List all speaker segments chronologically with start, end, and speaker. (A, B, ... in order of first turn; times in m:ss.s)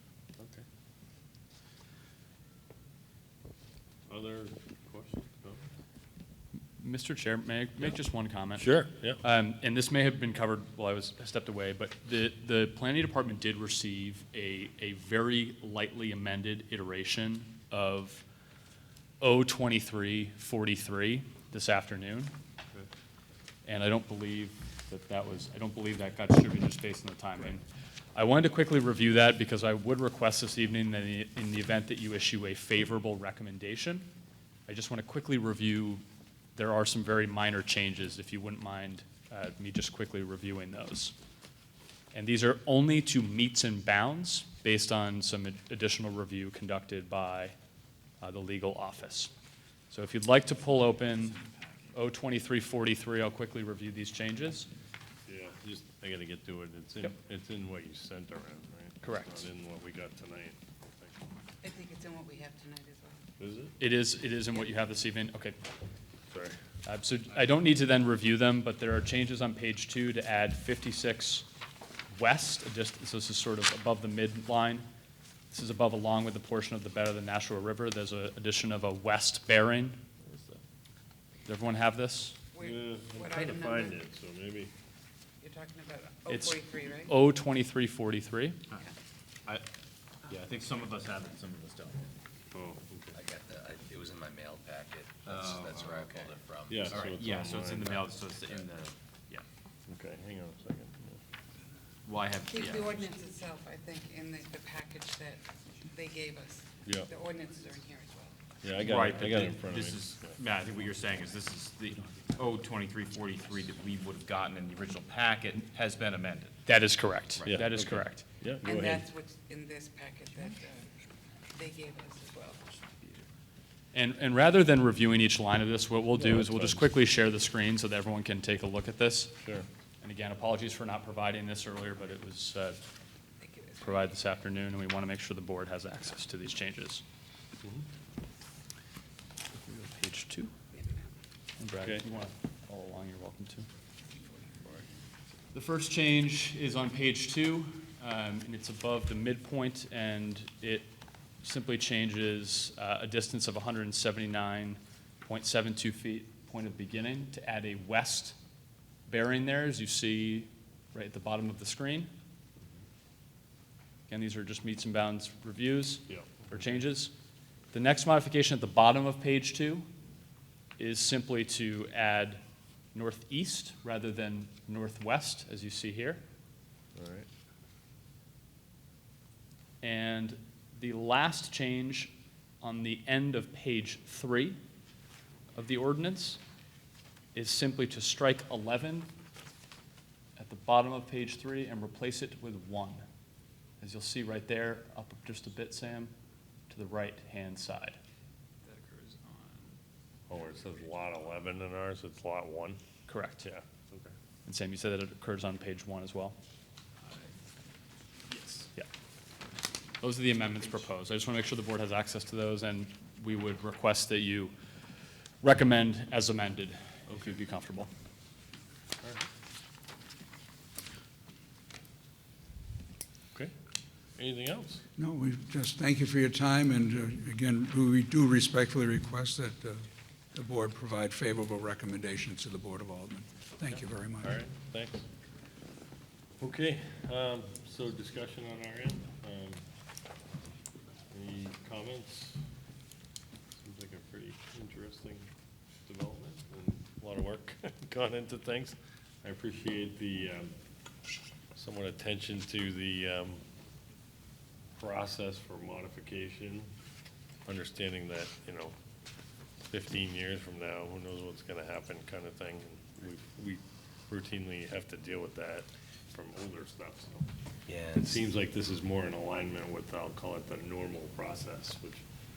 0:00.4-0:00.6 A
0:04.1-0:05.7 A
0:06.8-0:18.2 B
0:08.6-0:09.2 A
0:19.2-0:22.3 B
0:23.7-0:27.6 B
0:28.2-0:34.1 B
0:34.7-0:36.0 B
0:36.6-0:41.2 B
0:42.1-0:47.6 B
0:48.2-0:49.3 B
0:49.9-0:51.4 B
0:51.9-0:54.7 B
0:55.3-1:01.2 A
0:59.0-0:59.5 B
1:01.6-1:03.2 C
1:03.4-1:03.8 A
1:03.8-1:05.6 B
1:06.9-1:11.5 B
1:12.1-1:14.8 B
1:15.5-1:20.0 B
1:20.2-1:20.6 A
1:21.5-1:22.4 B
1:22.5-1:24.0 C
1:22.6-1:24.7 A
1:25.4-1:27.1 C
1:26.3-1:28.6 B
1:30.2-1:32.1 D
1:32.5-1:33.1 A
1:33.1-1:37.0 E
1:35.3-1:36.3 D
1:36.7-1:38.1 A
1:36.9-1:39.4 D
1:39.9-1:41.2 A
1:42.1-1:43.2 D
1:42.5-1:48.4 C
1:46.8-1:47.1 A
1:48.6-1:50.4 A
1:48.7-1:56.6 D
1:56.7-1:58.2 B
1:57.4-1:59.1 A
1:58.6-2:00.9 C
2:01.5-2:03.2 C
2:03.9-2:09.4 B
2:06.2-2:06.9 A
2:10.0-2:12.8 B
2:13.4-2:13.8 C
2:13.8-2:17.0 B
2:19.6-2:20.5 B
2:21.6-2:23.7 B
2:25.5-2:30.9 B
2:31.4-2:38.4 B
2:39.1-2:42.1 B
2:44.1-2:47.1 B
2:46.1-2:46.4 A
2:47.7-2:49.9 B
2:50.8-2:52.4 B
2:52.9-2:56.2 B
2:57.0-2:57.3 A
2:59.8-3:04.6 B
3:05.6-3:06.4 B
3:07.4-3:09.1 B
3:10.4-3:13.0 B
3:13.8-3:16.1 B
3:16.7-3:18.0 B
3:18.8-3:19.1 D
3:20.3-3:22.8 A
3:23.1-3:23.5 B
3:23.4-3:24.1 A
3:24.5-3:26.4 B
3:28.3-3:28.7 D
3:30.0-3:34.5 B
3:35.4-3:37.9 B
3:44.2-3:44.8 A
3:45.0-3:49.8 F
3:50.3-3:54.4 F
3:54.2-3:55.0 A
3:56.4-3:59.6 A
4:01.1-4:02.4 A
4:03.6-4:05.3 A
4:05.9-4:10.5 A
4:11.6-4:13.4 A
4:14.8-4:16.7 A
4:17.5-4:18.8 A
4:19.7-4:27.3 A
4:27.7-4:28.3 E
4:28.0-4:32.0 A